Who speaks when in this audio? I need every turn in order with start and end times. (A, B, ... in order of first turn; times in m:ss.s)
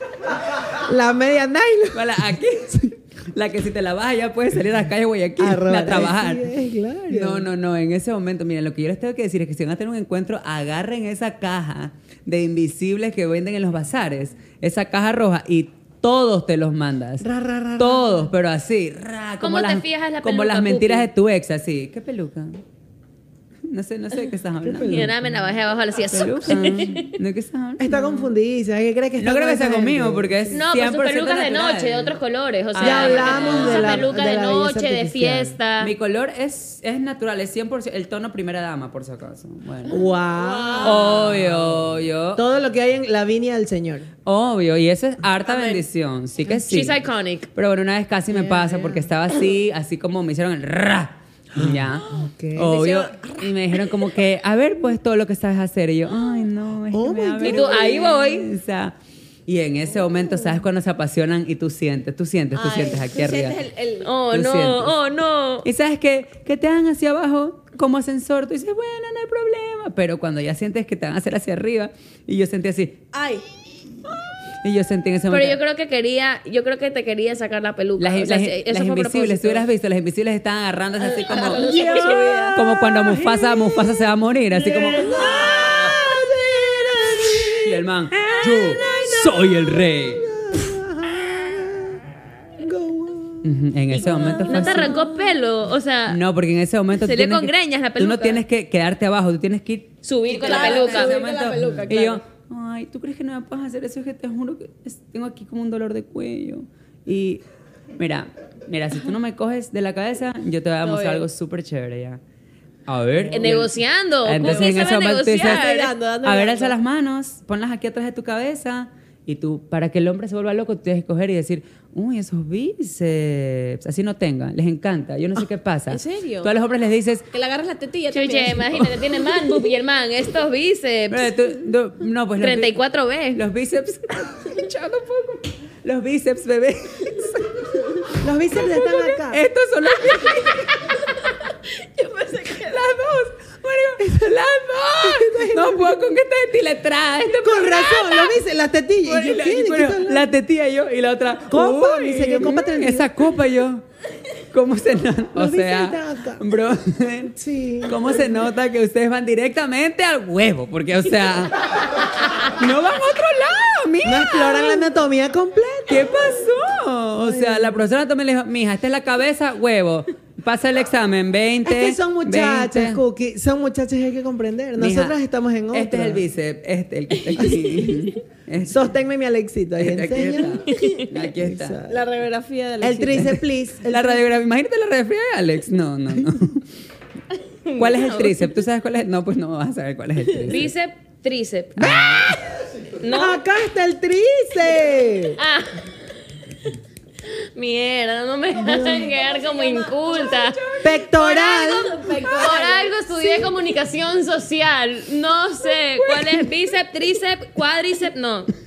0:00.6-0:02.8 A
0:01.9-0:06.5 B
0:05.4-0:07.5 A
0:07.1-0:22.6 B
0:17.2-0:18.3 A
0:19.4-0:21.1 C
0:23.7-0:25.1 B
0:24.6-0:25.2 A
0:24.9-0:27.1 C
0:26.1-0:28.2 B
0:27.8-0:30.6 A
0:29.2-0:32.2 B
0:30.5-0:35.9 C
0:32.7-0:34.1 B
0:32.8-0:35.6 A
0:35.8-0:40.0 B
0:39.9-0:41.2 D
0:39.9-0:44.1 A
0:40.8-0:42.4 B
0:44.3-0:47.0 B
0:45.4-0:45.8 D
0:46.7-0:47.5 C
0:47.6-0:59.0 B
0:48.3-0:49.1 A
0:51.6-0:52.8 A
0:52.0-0:54.1 D
0:56.9-0:58.0 A
0:57.4-0:58.5 C
0:59.5-1:03.6 B
1:02.5-1:04.1 D
1:04.0-1:05.7 C
1:04.3-1:05.0 B
1:05.6-1:13.0 B
1:13.1-1:13.5 D
1:14.6-1:15.6 B
1:15.3-1:19.6 C
1:18.0-1:25.2 B
1:21.0-1:22.6 D
1:21.6-1:24.0 A
1:24.6-1:35.1 A
1:25.1-1:25.7 D
1:27.6-1:30.2 B
1:33.4-1:35.0 B
1:34.0-1:34.4 D
1:34.5-1:36.2 C
1:36.1-1:47.4 B
1:37.0-1:38.4 C
1:40.0-1:41.2 C
1:40.3-1:42.2 D
1:48.0-1:52.2 B
1:50.8-1:51.2 D
1:52.9-1:55.7 B
1:53.3-1:55.9 C
1:54.4-1:56.8 D
1:56.2-2:07.2 B
2:05.9-2:06.5 D
2:07.3-2:09.0 D
2:08.1-2:11.3 C
2:11.1-2:12.8 B
2:12.4-2:13.4 C
2:13.3-2:21.0 B
2:18.2-2:19.4 A
2:21.7-2:23.1 D
2:22.6-2:28.3 B
2:25.0-2:26.0 A
2:27.2-2:30.3 A
2:29.0-2:33.8 B
2:31.5-2:33.2 A
2:34.5-2:44.9 B
2:35.4-2:36.4 A
2:37.4-2:38.5 A
2:44.0-2:46.1 A
2:45.9-2:53.0 B
2:47.2-2:47.8 A
2:51.6-2:56.2 A
2:54.8-2:55.2 B
2:55.7-2:58.9 B
2:57.4-2:57.7 A
2:58.6-3:00.7 A
2:59.8-3:01.8 B
3:01.3-3:02.1 A
3:01.9-3:03.3 D
3:02.8-3:04.2 A
3:03.2-3:06.7 B
3:07.7-3:08.4 C
3:07.8-3:10.7 B
3:10.5-3:12.2 C
3:11.8-3:12.4 A
3:12.0-3:12.4 B
3:13.0-3:13.4 C
3:13.0-3:15.4 A
3:15.4-3:15.8 C
3:17.6-3:20.6 C
3:18.6-3:19.1 A
3:18.9-3:23.5 D
3:20.8-3:22.0 A
3:22.2-3:22.5 B
3:22.4-3:28.5 C
3:26.0-3:26.3 B